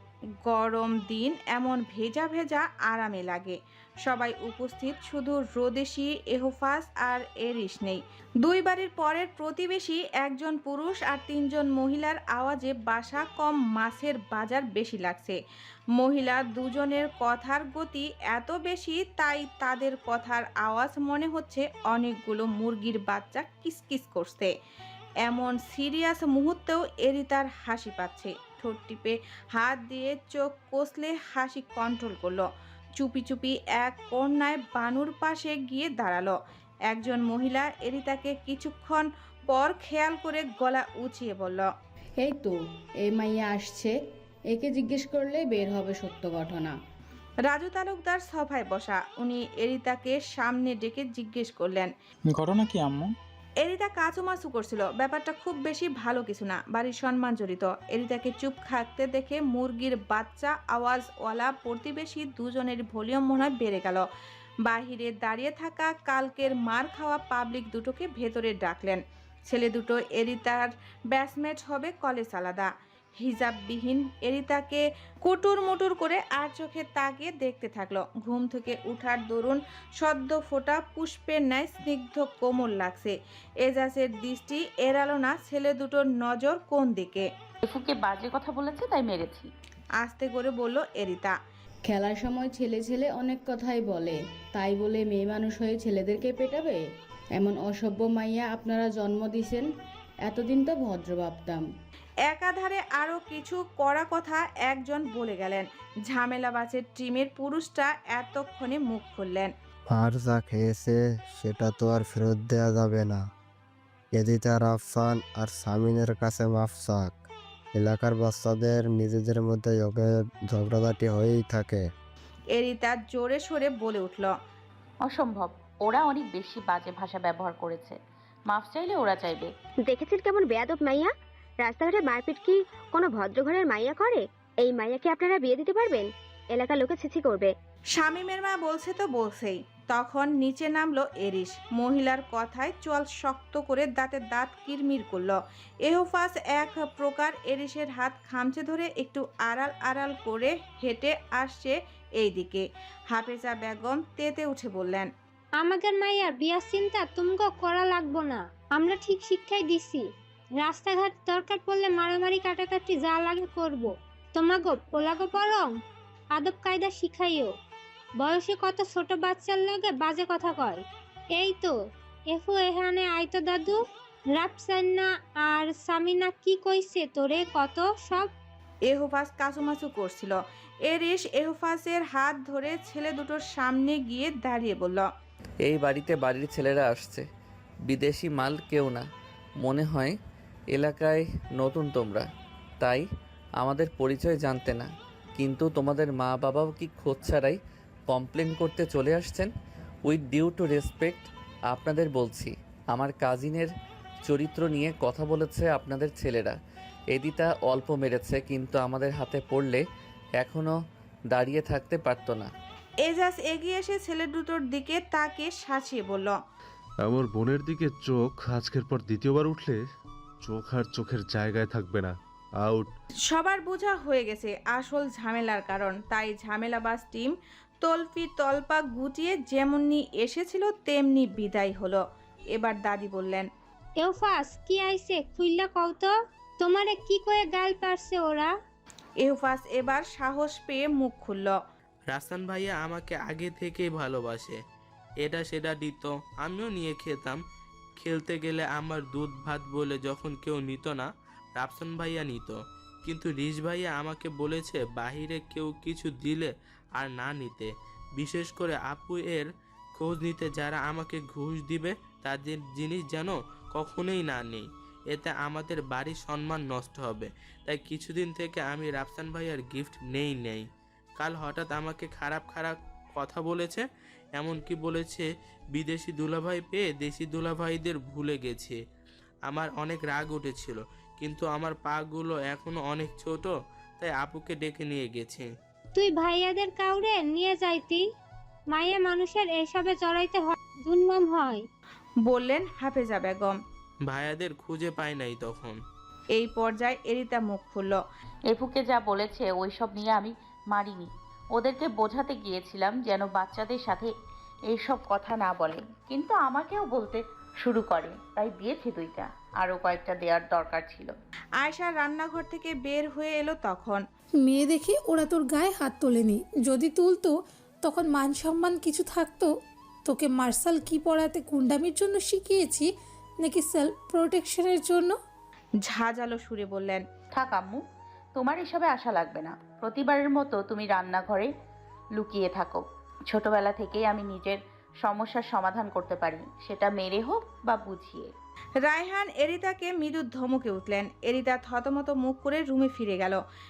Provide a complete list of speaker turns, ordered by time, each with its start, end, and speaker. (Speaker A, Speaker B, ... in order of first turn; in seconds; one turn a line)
Speaker A: 0.5-15.4
Speaker A: 15.9-24.5
Speaker A: 25.2-36.4
Speaker A: 36.9-41.7
Speaker B: 42.2-43.9
Speaker B: 44.5-46.8
Speaker A: 47.5-51.9
Speaker B: 52.3-53.1
Speaker A: 53.6-64.0
Speaker A: 64.7-87.3
Speaker C: 87.7-89.5
Speaker A: 90.0-91.3
Speaker B: 91.9-96.8
Speaker B: 97.4-99.7
Speaker B: 100.3-101.6
Speaker A: 102.3-109.5
Speaker D: 109.9-113.2
Speaker D: 114.1-117.2
Speaker D: 117.8-121.9
Speaker A: 122.5-124.3
Speaker C: 125.0-128.0
Speaker C: 128.5-129.5
Speaker E: 129.8-137.5
Speaker A: 138.0-155.1
Speaker F: 155.6-160.0
Speaker F: 160.6-165.7
Speaker F: 166.3-167.5
Speaker F: 168.2-170.8
Speaker F: 171.4-171.7
Speaker F: 172.3-173.8
Speaker F: 174.3-178.3
Speaker A: 178.9-185.1
Speaker G: 185.6-187.2
Speaker G: 187.8-189.1
Speaker G: 189.6-190.2
Speaker G: 190.7-192.3
Speaker G: 192.8-193.1
Speaker G: 193.6-199.5
Speaker G: 200.1-203.7
Speaker G: 204.2-206.6
Speaker G: 207.1-209.8
Speaker G: 210.4-210.8
Speaker G: 211.3-212.5
Speaker A: 213.0-216.4
Speaker H: 217.1-219.8
Speaker H: 220.4-222.9
Speaker A: 223.3-232.0
Speaker A: 232.5-233.5
Speaker F: 234.0-238.5
Speaker A: 239.2-241.6
Speaker I: 242.1-244.6
Speaker I: 245.2-247.4
Speaker I: 248.0-270.7
Speaker I: 271.2-273.9
Speaker I: 274.4-278.8
Speaker I: 279.5-285.5
Speaker F: 285.9-288.0
Speaker F: 288.7-291.6
Speaker A: 292.2-293.6
Speaker I: 294.1-295.8
Speaker A: 296.4-298.0
Speaker C: 298.5-304.1
Speaker C: 304.7-311.1
Speaker A: 311.6-314.0
Speaker J: 314.4-317.3
Speaker J: 317.8-319.5
Speaker J: 320.1-322.9
Speaker J: 323.4-325.2
Speaker A: 325.8-327.0
Speaker C: 327.4-327.8
Speaker C: 328.4-331.5
Speaker C: 332.2-338.3
Speaker A: 338.8-343.4